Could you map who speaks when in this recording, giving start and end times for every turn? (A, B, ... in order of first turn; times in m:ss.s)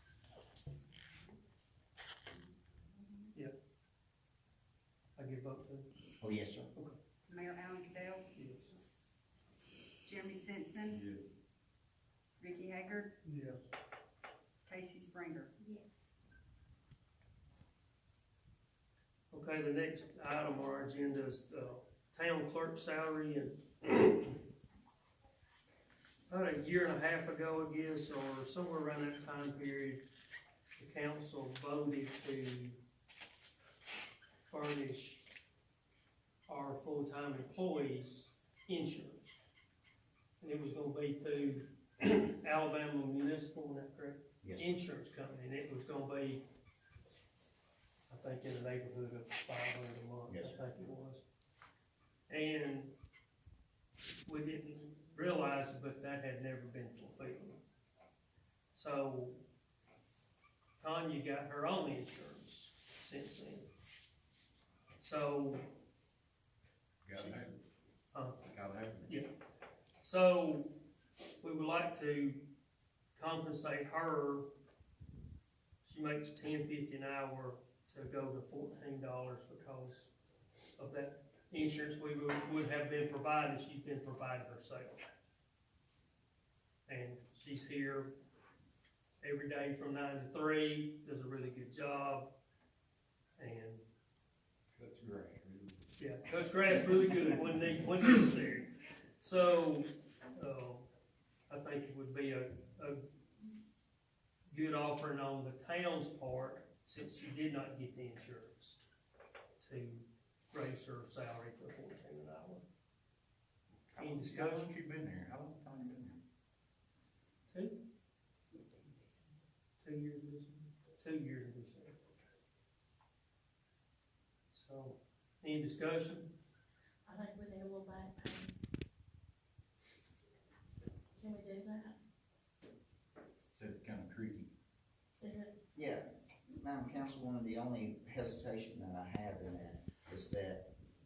0:05.2-0:05.9 A
0:06.2-0:06.7 B
0:07.3-0:08.3 C
0:08.4-0:08.7 A
0:10.0-0:11.0 C
0:10.9-0:11.2 D
0:12.4-0:13.1 C
0:13.2-0:13.6 A
0:14.7-0:15.5 C
0:15.6-0:15.9 E
0:19.3-0:24.4 A
0:26.3-0:30.0 A
0:30.8-0:32.8 A
0:34.5-0:35.2 A
0:36.5-0:39.4 A
0:40.4-0:46.4 A
0:44.4-0:44.7 B
0:48.1-0:51.2 A
0:50.3-0:50.6 B
0:52.3-0:52.9 A
0:54.3-0:57.6 A
0:58.7-0:59.4 A
1:00.8-1:03.7 A
1:05.0-1:05.7 A
1:07.0-1:07.5 D
1:07.1-1:07.4 A
1:08.1-1:08.4 A
1:08.5-1:09.2 D
1:10.0-1:10.7 A
1:11.4-1:12.4 A
1:13.2-1:14.5 A
1:15.8-1:20.1 A
1:20.8-1:25.0 A
1:26.9-1:28.1 A
1:29.2-1:32.3 A
1:33.4-1:33.8 A
1:34.8-1:35.8 D
1:36.0-1:40.9 A
1:41.5-1:43.0 A
1:44.5-1:48.8 A
1:49.6-1:52.6 A
1:53.9-1:56.2 D
1:54.0-1:54.7 A
1:57.5-1:57.8 A
1:58.6-1:59.1 C
1:59.8-2:02.0 A
2:04.5-2:06.3 A
2:07.1-2:08.5 E
2:11.2-2:12.0 E
2:13.5-2:14.5 D
2:15.2-2:15.5 E
2:15.8-2:20.7 B